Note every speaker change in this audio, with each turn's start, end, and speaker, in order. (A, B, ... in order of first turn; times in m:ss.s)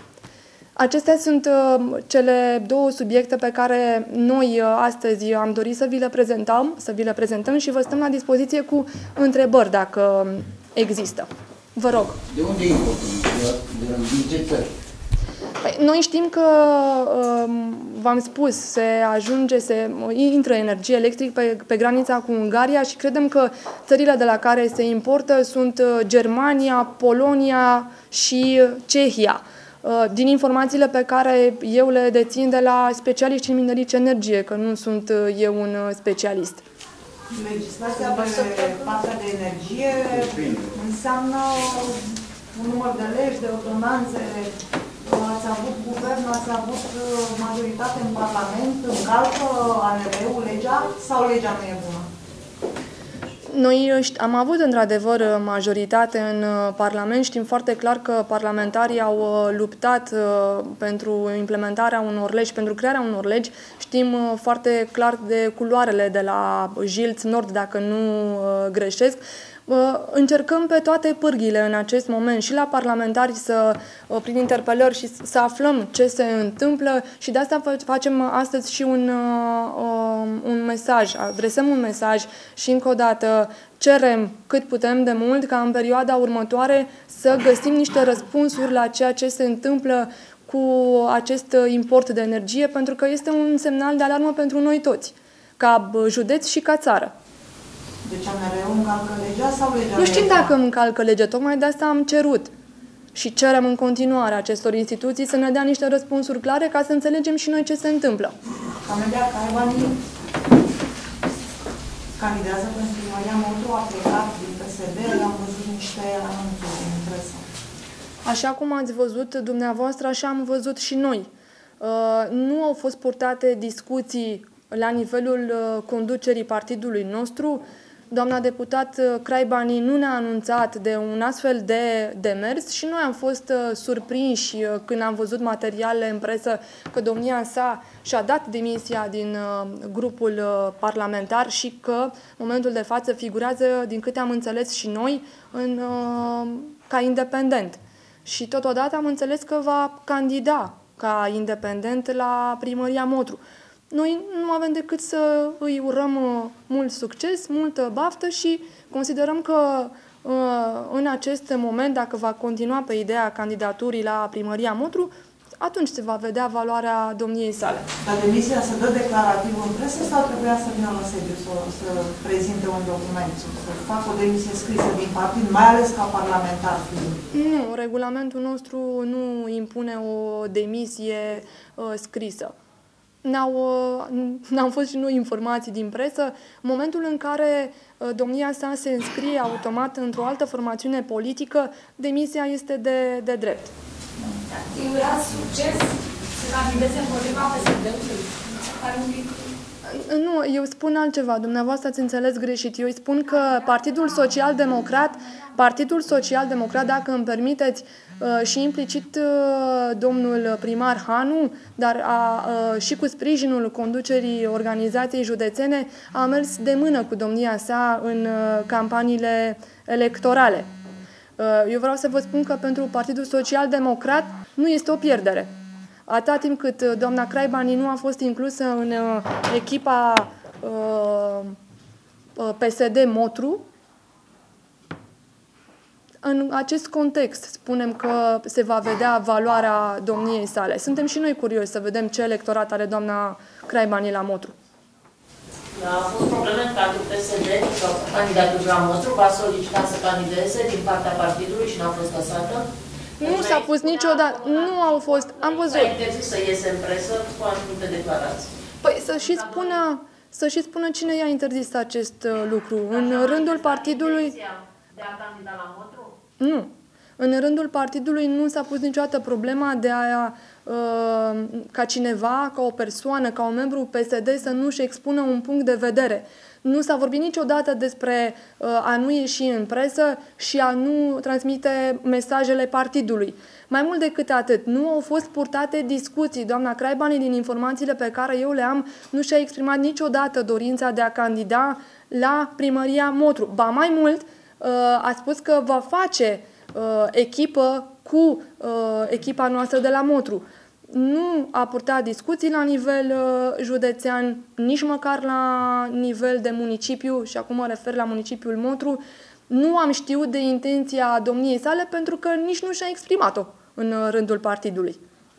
0:00.8-0:12.2 A
0:12.2-0:14.7 B
0:15.6-0:36.6 A
0:37.3-0:52.1 C
0:38.0-0:38.8 A
0:53.5-1:37.1 A
1:38.0-1:40.5 C
1:40.0-1:42.5 A
1:43.2-1:48.3 A
1:48.8-1:50.0 C
1:52.2-1:57.4 C
1:58.2-2:01.3 A
2:01.8-2:33.4 A
2:33.9-2:47.9 A
2:48.0-2:57.2 C
2:57.3-3:02.5 A
3:03.2-3:13.7 A
3:14.5-3:19.5 D
3:19.8-3:40.7 A
3:41.4-3:45.5 A
3:46.1-3:51.6 A
3:52.4-3:53.6 A
3:56.2-4:04.5 A
4:05.7-4:12.7 E
4:13.2-4:16.0 A
4:13.2-4:18.5 E
4:18.8-4:24.4 A
4:19.2-4:19.8 E
4:22.9-4:26.1 E
4:26.4-5:15.0 A